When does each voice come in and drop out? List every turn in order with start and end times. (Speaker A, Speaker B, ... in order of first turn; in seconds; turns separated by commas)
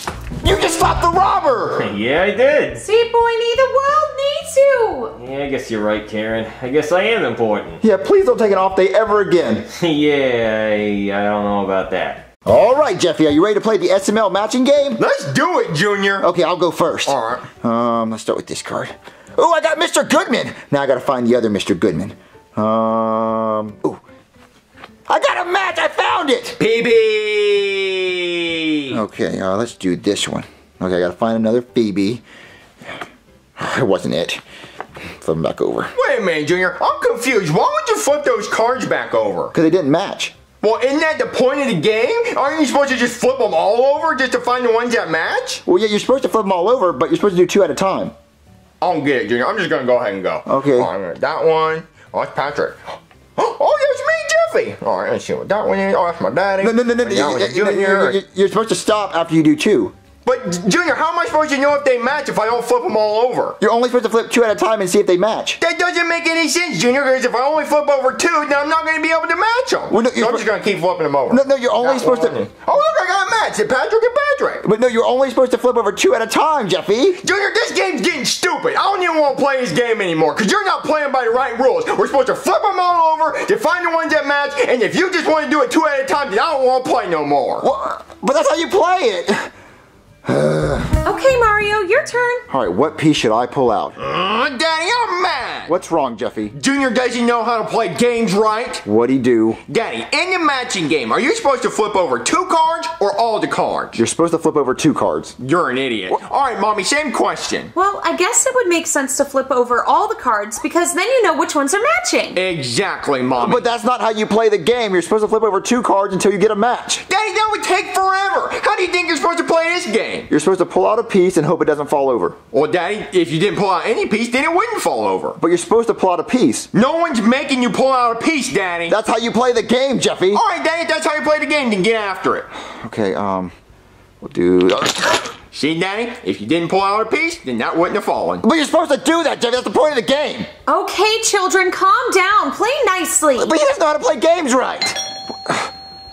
Speaker A: 0.4-1.9, Speaker B: 1.8-2.8, Speaker C: 2.8-5.2, Speaker B: 5.2-7.8, Speaker A: 7.8-9.7, Speaker B: 9.7-12.2, Speaker A: 12.4-15.0, Speaker D: 15.0-16.3, Speaker A: 16.2-24.0, Speaker D: 17.1-17.4, Speaker A: 25.1-26.6, Speaker D: 26.6-29.0, Speaker A: 28.9-32.2, Speaker A: 33.6-34.4, Speaker A: 35.2-35.9, Speaker D: 35.9-39.5, Speaker A: 39.5-40.3, Speaker D: 40.6-45.6, Speaker A: 45.6-48.1, Speaker D: 48.8-58.2, Speaker A: 50.5-50.9, Speaker A: 56.6-59.9, Speaker D: 60.2-63.6, Speaker A: 63.6-65.6, Speaker D: 65.6-74.6, Speaker A: 69.9-70.5, Speaker A: 71.3-72.4, Speaker A: 74.6-77.2, Speaker D: 77.2-87.7, Speaker A: 87.6-89.5, Speaker A: 90.2-91.0, Speaker C: 91.0-92.4, Speaker A: 92.5-94.0, Speaker D: 94.0-95.7, Speaker A: 95.7-96.5, Speaker D: 96.5-98.8, Speaker A: 98.8-99.6, Speaker D: 99.7-104.0, Speaker A: 103.9-105.3, Speaker D: 105.4-107.7, Speaker C: 107.7-112.4, Speaker D: 112.3-113.6, Speaker A: 113.4-117.0, Speaker D: 117.1-120.3, Speaker A: 120.3-122.4, Speaker D: 122.5-125.4, Speaker A: 125.4-126.7, Speaker D: 126.7-129.0, Speaker A: 128.9-130.4, Speaker D: 130.3-132.5, Speaker A: 132.7-133.5, Speaker A: 134.2-135.3, Speaker D: 135.5-138.4, Speaker A: 138.4-140.5, Speaker C: 140.7-143.5, Speaker A: 143.3-145.7